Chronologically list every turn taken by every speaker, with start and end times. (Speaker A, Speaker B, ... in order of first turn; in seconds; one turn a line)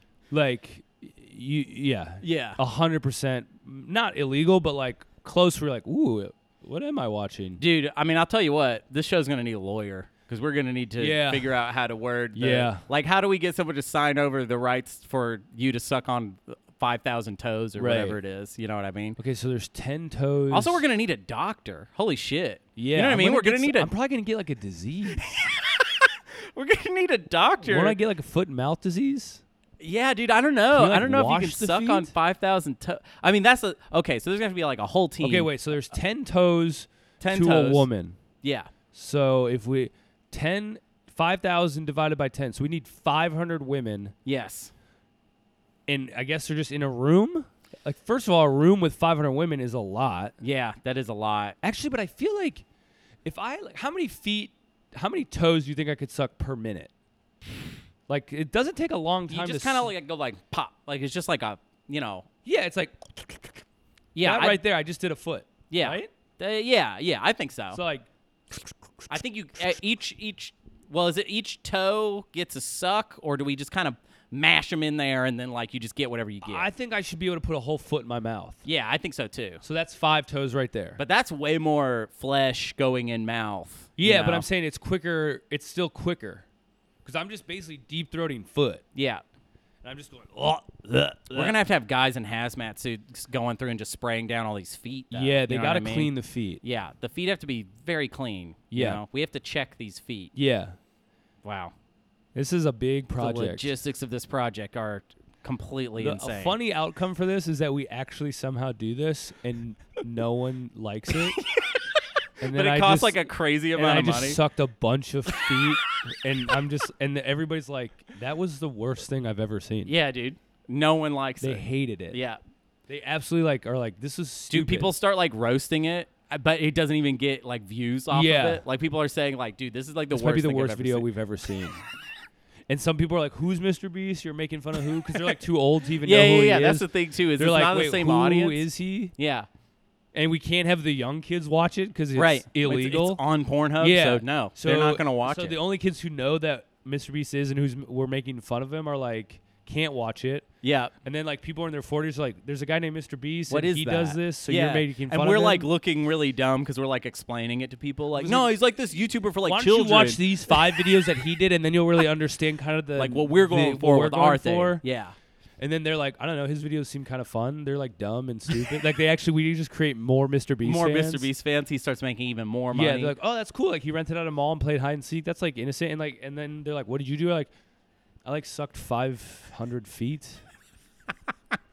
Speaker A: 0.3-7.6
Speaker B: 2.2-2.6
Speaker B: 7.6-19.2
Speaker A: 11.0-11.5
Speaker A: 12.3-12.8
Speaker A: 17.8-18.2
Speaker A: 19.2-20.8
Speaker B: 20.5-23.9
Speaker A: 22.8-25.2
Speaker B: 25.2-28.0
Speaker A: 27.6-29.4
Speaker B: 29.8-35.5
Speaker A: 30.7-32.1
Speaker A: 35.2-38.2
Speaker B: 37.2-37.9
Speaker B: 38.4-38.7
Speaker A: 38.9-44.1
Speaker B: 44.2-44.7
Speaker A: 45.9-50.3
Speaker B: 50.4-51.5
Speaker A: 51.6-52.6
Speaker A: 53.2-56.9
Speaker A: 58.1-59.9
Speaker B: 59.3-62.3
Speaker A: 62.4-63.6
Speaker B: 64.1-64.6
Speaker A: 64.2-66.1
Speaker B: 65.7-67.8
Speaker A: 67.7-69.8
Speaker B: 69.1-76.7
Speaker A: 76.4-78.6
Speaker B: 78.6-79.6
Speaker A: 79.6-81.0
Speaker B: 81.0-84.5
Speaker A: 84.0-86.4
Speaker A: 87.0-88.8
Speaker B: 88.9-89.2
Speaker A: 89.8-91.6
Speaker B: 91.3-100.3
Speaker A: 95.1-96.6
Speaker A: 98.7-99.0
Speaker A: 100.3-100.8
Speaker B: 101.4-101.7
Speaker A: 102.3-103.7
Speaker B: 103.2-106.5
Speaker A: 106.0-111.4
Speaker B: 111.1-111.8
Speaker A: 112.4-113.2
Speaker B: 112.5-114.4
Speaker A: 113.7-119.9
Speaker B: 115.3-115.6
Speaker B: 119.8-122.4
Speaker A: 121.4-122.2
Speaker A: 122.9-124.9
Speaker B: 124.5-131.1
Speaker A: 128.1-128.6
Speaker A: 130.1-131.8
Speaker A: 132.7-139.1
Speaker B: 136.0-138.6
Speaker B: 139.2-139.5
Speaker A: 140.1-143.2
Speaker B: 142.2-145.6
Speaker A: 143.8-150.4
Speaker B: 150.6-150.9
Speaker A: 151.0-155.7
Speaker B: 153.5-160.7
Speaker A: 158.2-158.5
Speaker A: 159.4-164.8
Speaker B: 163.0-165.1
Speaker A: 165.6-171.3
Speaker B: 170.6-173.1
Speaker A: 172.7-177.5
Speaker A: 178.2-180.4